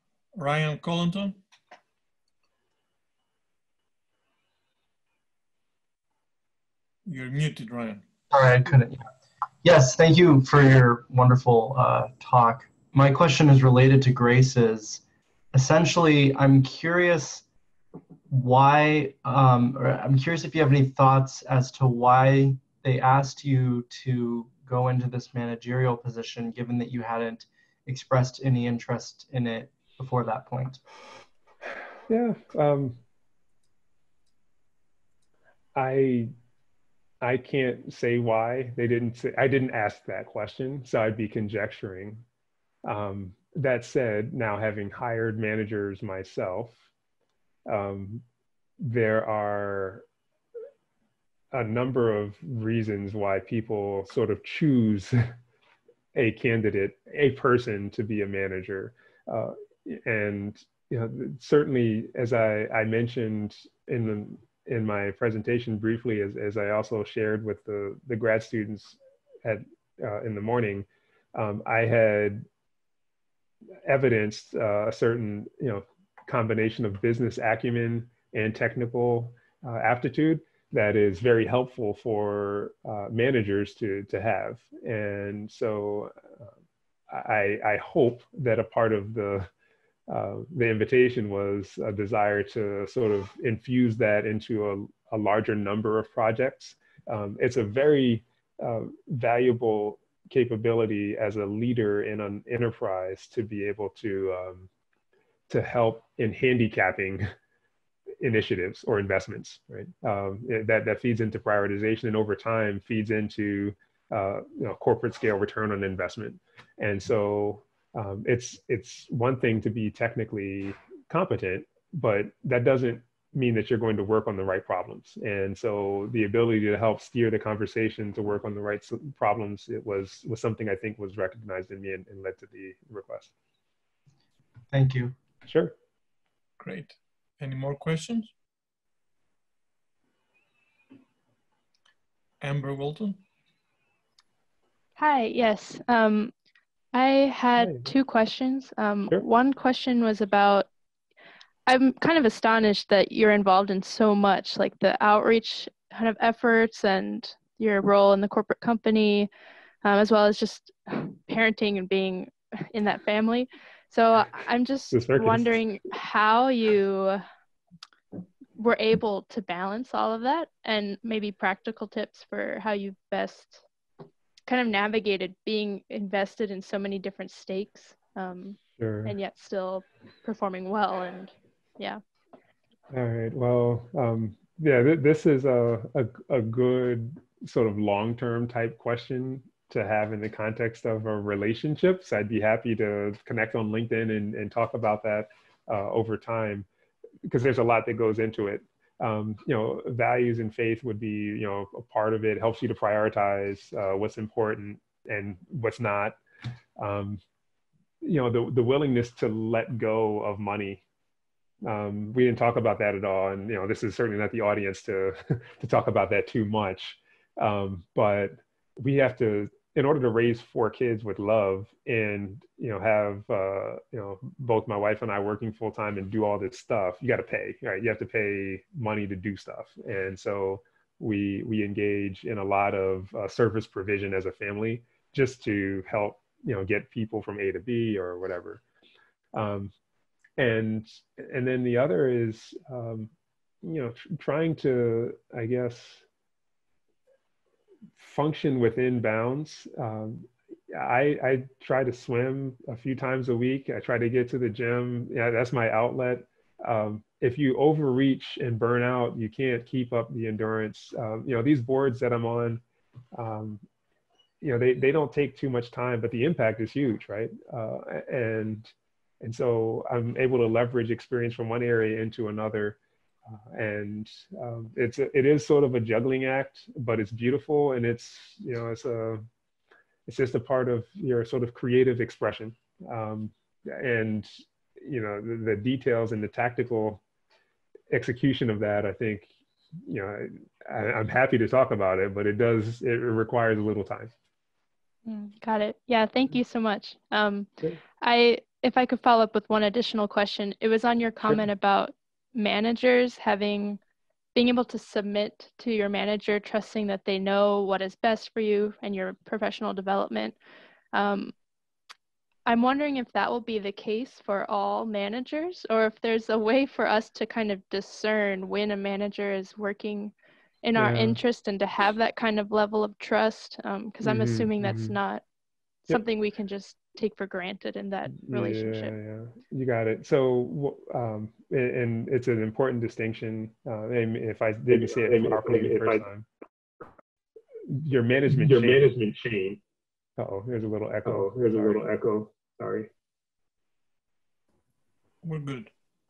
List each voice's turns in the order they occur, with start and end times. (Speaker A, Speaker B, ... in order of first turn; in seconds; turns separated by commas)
Speaker A: 0.3-1.4, Speaker A: 7.0-8.0, Speaker B: 8.3-9.1, Speaker B: 9.6-15.0, Speaker B: 15.5-17.4, Speaker B: 18.3-30.8, Speaker C: 32.1-33.0, Speaker C: 35.7-36.3, Speaker C: 37.2-42.2, Speaker C: 42.8-46.8, Speaker C: 47.6-48.2, Speaker C: 48.8-50.0, Speaker C: 51.5-55.2, Speaker C: 56.1-72.5, Speaker C: 73.8-86.2, Speaker C: 87.1-89.5, Speaker C: 90.1-104.7, Speaker C: 105.5-107.3, Speaker C: 108.2-133.3, Speaker B: 134.7-135.1, Speaker C: 135.4-135.7, Speaker A: 136.6-138.3, Speaker A: 142.4-143.2, Speaker D: 145.0-146.3, Speaker D: 146.9-150.7, Speaker C: 147.6-147.9, Speaker D: 151.7-159.3, Speaker D: 159.8-167.2, Speaker C: 164.9-165.5, Speaker D: 168.6-173.6, Speaker D: 174.5-182.0, Speaker C: 178.8-179.1, Speaker C: 182.9-196.7, Speaker C: 197.2-206.2, Speaker C: 206.8-207.2, Speaker C: 208.0-210.8, Speaker C: 211.6-238.6, Speaker C: 239.3-239.7, Speaker C: 240.4-243.1, Speaker C: 243.6-246.0, Speaker C: 248.0-262.6, Speaker C: 263.1-263.6, Speaker C: 264.4-272.8, Speaker C: 273.3-279.2, Speaker C: 280.1-287.0, Speaker C: 287.9-289.3, Speaker C: 289.8-294.1, Speaker D: 295.1-303.8, Speaker D: 304.3-310.4, Speaker D: 310.9-311.3, Speaker D: 312.4-325.2, Speaker C: 320.8-321.2, Speaker C: 324.0-325.0, Speaker D: 325.9-328.9, Speaker C: 328.1-336.2, Speaker E: 335.1-335.7, Speaker C: 337.7-338.9, Speaker E: 338.5-339.6, Speaker C: 340.2-341.9, Speaker E: 341.1-342.9, Speaker A: 345.2-345.7